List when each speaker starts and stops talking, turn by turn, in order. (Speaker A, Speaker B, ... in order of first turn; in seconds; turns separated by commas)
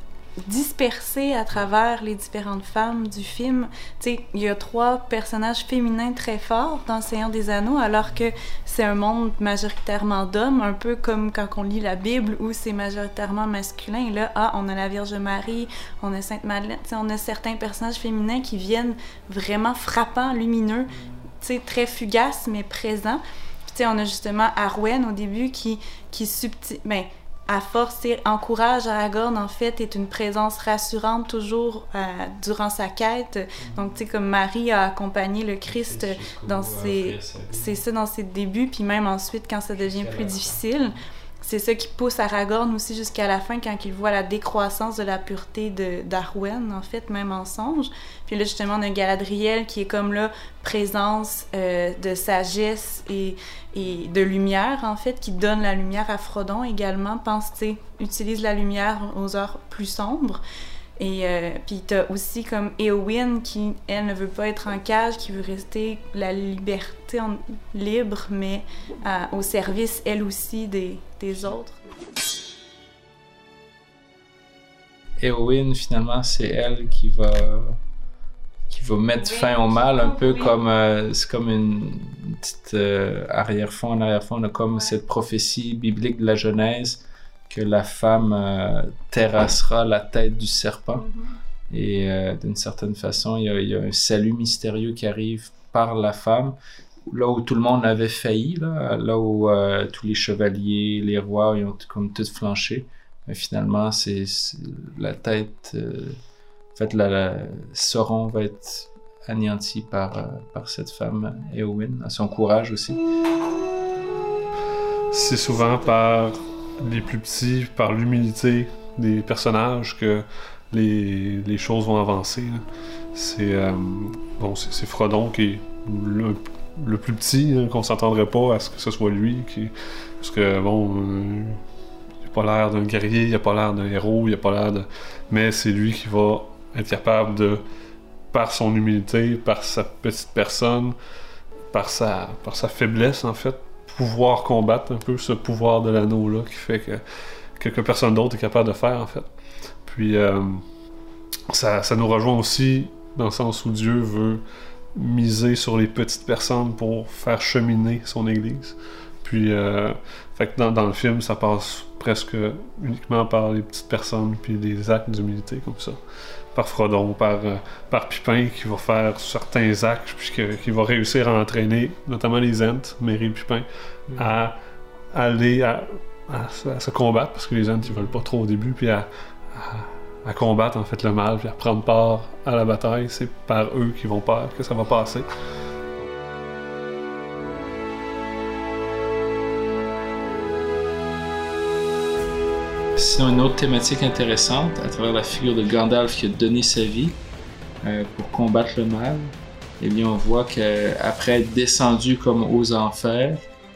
Speaker A: 0.5-60.4, Speaker B: 35.7-37.8, Speaker B: 39.8-41.0, Speaker A: 61.0-71.8, Speaker B: 75.2-77.8, Speaker B: 78.7-91.1, Speaker B: 91.7-96.6, Speaker B: 97.1-106.2, Speaker B: 106.8-113.0, Speaker C: 115.1-131.6, Speaker C: 132.2-137.6, Speaker C: 138.3-140.9, Speaker C: 141.7-147.0, Speaker C: 147.6-149.3, Speaker C: 149.8-150.6, Speaker C: 151.5-154.4, Speaker C: 154.9-166.0, Speaker C: 166.5-174.6, Speaker B: 174.1-174.4, Speaker C: 175.1-185.3, Speaker B: 193.0-197.2, Speaker B: 197.8-203.4